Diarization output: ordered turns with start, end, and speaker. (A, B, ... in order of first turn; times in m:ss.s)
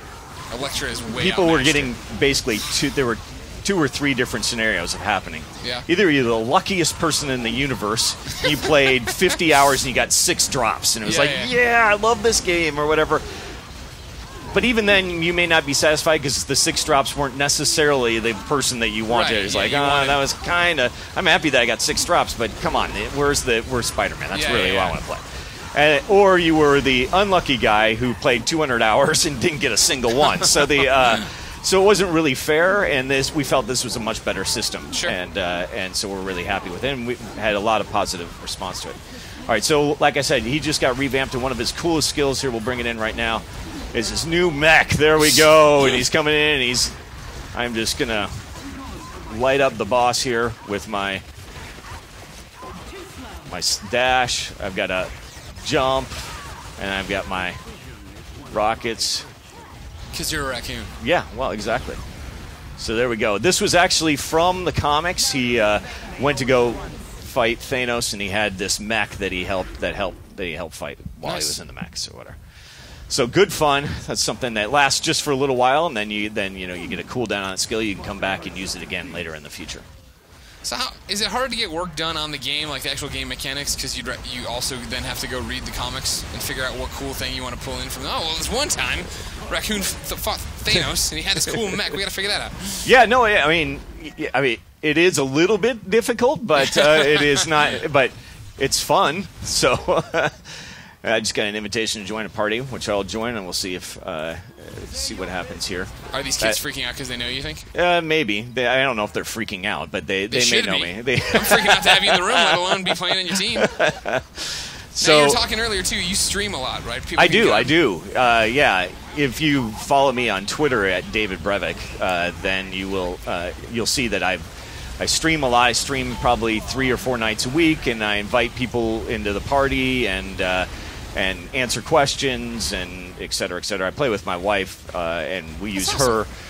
0:00.5-0:01.9 A
0:01.2-0:13.2 B
0:05.6-0:05.9 A
0:11.0-0:11.5 A
0:14.5-0:46.9 B
0:19.1-0:20.2 A
0:24.3-0:25.0 A
0:45.3-0:46.0 A
0:47.5-0:48.3 B
0:49.3-0:51.2 B
0:53.5-0:55.1 B
0:55.6-0:57.6 B
0:58.5-0:59.3 B
1:00.1-1:00.9 A
1:01.0-1:02.0 B
1:02.8-1:12.4 B
1:11.2-1:11.6 A
1:13.1-1:19.8 B
1:20.6-1:32.9 A
1:32.8-1:46.6 B
1:36.6-1:37.7 A
1:46.1-1:47.7 A
1:47.7-1:55.4 B
1:50.3-1:53.7 A
1:55.0-1:57.8 A
1:57.2-2:04.5 B
2:05.0-2:16.3 B
2:15.7-2:16.2 A